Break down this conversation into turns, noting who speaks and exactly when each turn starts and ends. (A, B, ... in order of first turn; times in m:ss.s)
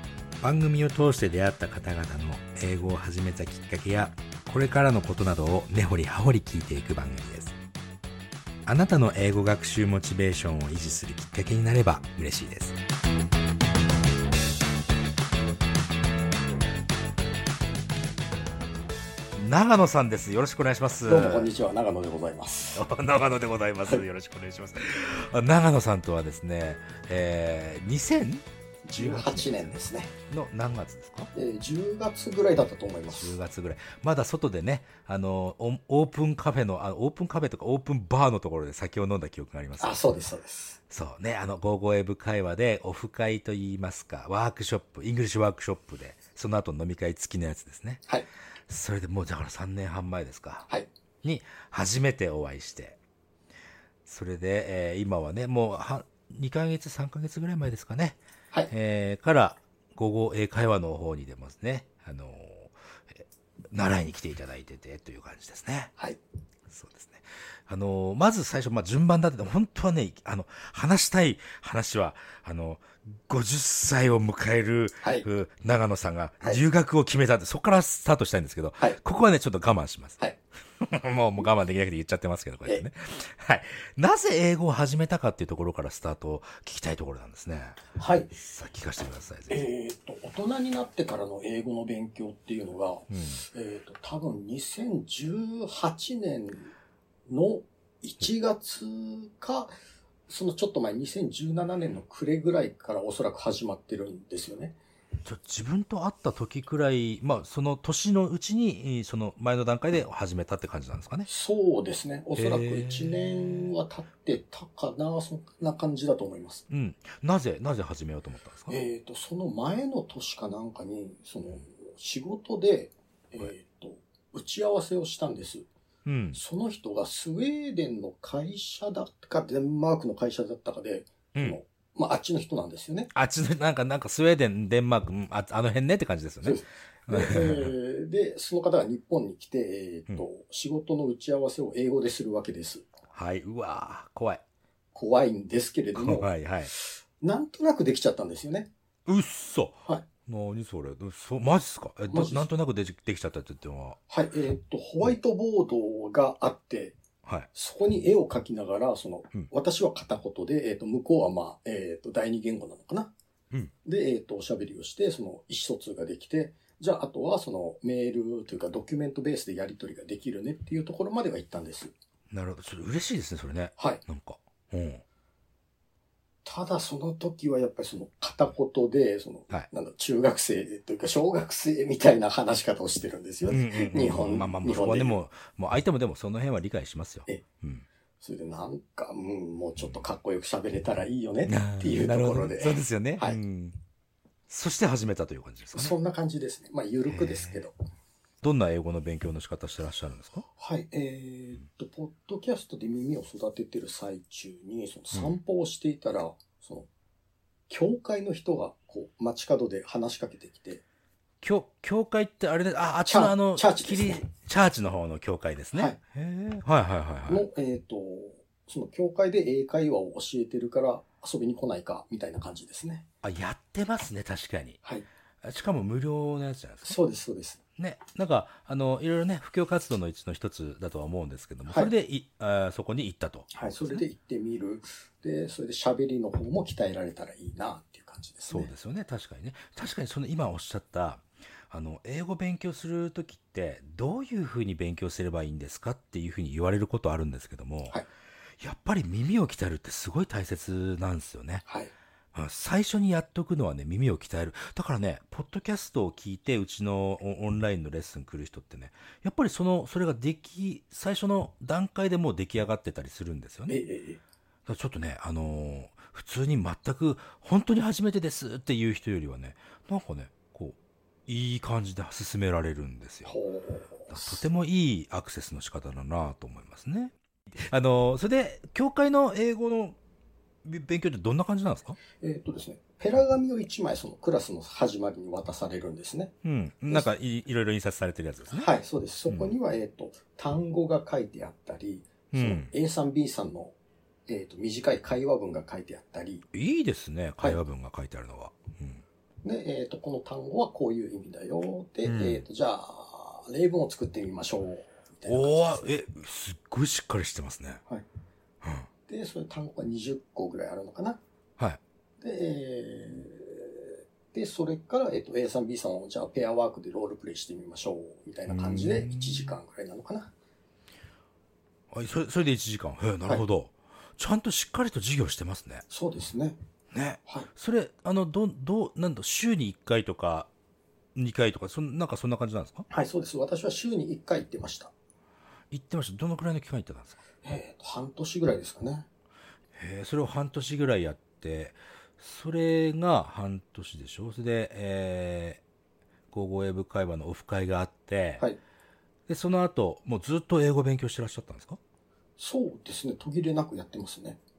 0:00.4-0:07.5 A
0:08.6-0:12.8 A
0:19.3-0:21.5 A
0:21.0-0:22.8 B
0:22.7-0:31.3 A
0:28.8-0:30.1 B
0:31.3-0:33.3 B
0:33.1-0:40.0 A
0:39.8-0:40.8 B
0:40.9-0:48.0 A
0:48.7-0:50.7 A
0:51.2-0:53.0 A
0:54.0-0:58.2 A
0:58.7-1:05.9 A
1:06.7-1:20.2 A
1:15.0-1:15.2 B
1:20.7-1:27.8 A
1:28.0-1:28.3 B
1:28.4-1:29.7 A
1:29.5-1:36.7 B
1:33.1-1:33.4 A
1:37.3-1:39.7 B
1:40.3-1:44.8 B
1:45.2-1:51.3 A
1:51.3-1:56.6 B
1:52.4-1:53.7 A
1:56.7-1:58.8 A
1:58.7-2:05.6 B
2:06.0-2:06.4 A
2:06.3-2:13.1 B
2:13.1-2:17.7 A
2:16.4-2:22.9 B
2:23.1-2:24.4 A
2:24.9-2:28.7 B
2:26.0-2:26.7 A
2:29.1-2:34.0 A
2:32.1-2:32.5 B
2:34.1-2:37.0 B
2:37.2-2:37.5 A
2:37.5-2:43.1 B
2:43.8-2:51.9 B
2:52.3-2:55.0 A
2:56.4-3:05.2 B
3:03.4-3:07.8 A
3:08.2-3:13.4 B
3:09.8-3:10.0 A
3:11.4-3:13.8 A
3:14.5-3:15.9 A
3:15.7-3:17.7 B
3:17.1-3:17.6 A
3:18.4-3:20.4 A
3:20.6-3:26.9 B
3:27.7-3:30.8 B
3:31.4-3:37.4 A
3:33.1-3:34.2 B
3:37.3-3:43.0 B
3:43.2-3:44.8 A
3:45.4-3:47.0 A
3:46.8-3:47.6 B
3:47.8-3:54.0 A
3:53.5-3:58.7 B
3:58.5-4:08.0 A
4:08.6-4:11.6 A
4:11.7-4:11.9 B
4:12.3-4:23.8 A
4:23.7-4:24.2 B
4:24.7-4:33.4 A
4:33.2-4:34.4 B
4:34.1-4:40.0 A
4:40.6-4:42.0 A
4:42.2-4:46.3 B
4:46.4-4:48.7 A
4:48.5-4:53.7 B
4:49.3-4:49.5 A
4:52.3-4:52.7 A
4:54.3-4:56.4 B
4:56.5-4:59.0 A
4:59.4-5:05.9 B
5:02.0-5:02.4 A
5:05.2-5:07.8 A
5:08.6-5:08.9 A
5:09.1-5:11.2 B
5:12.2-5:20.3 B
5:18.5-5:19.5 A
5:21.9-5:25.8 A
5:25.9-5:26.6 B
5:26.9-5:30.5 A
5:31.1-5:32.9 A
5:32.9-5:34.9 B
5:35.7-5:37.2 A
5:37.4-5:39.1 B
5:39.8-5:45.6 A
5:46.3-5:48.4 A
5:49.3-5:51.8 A
5:52.4-5:54.4 B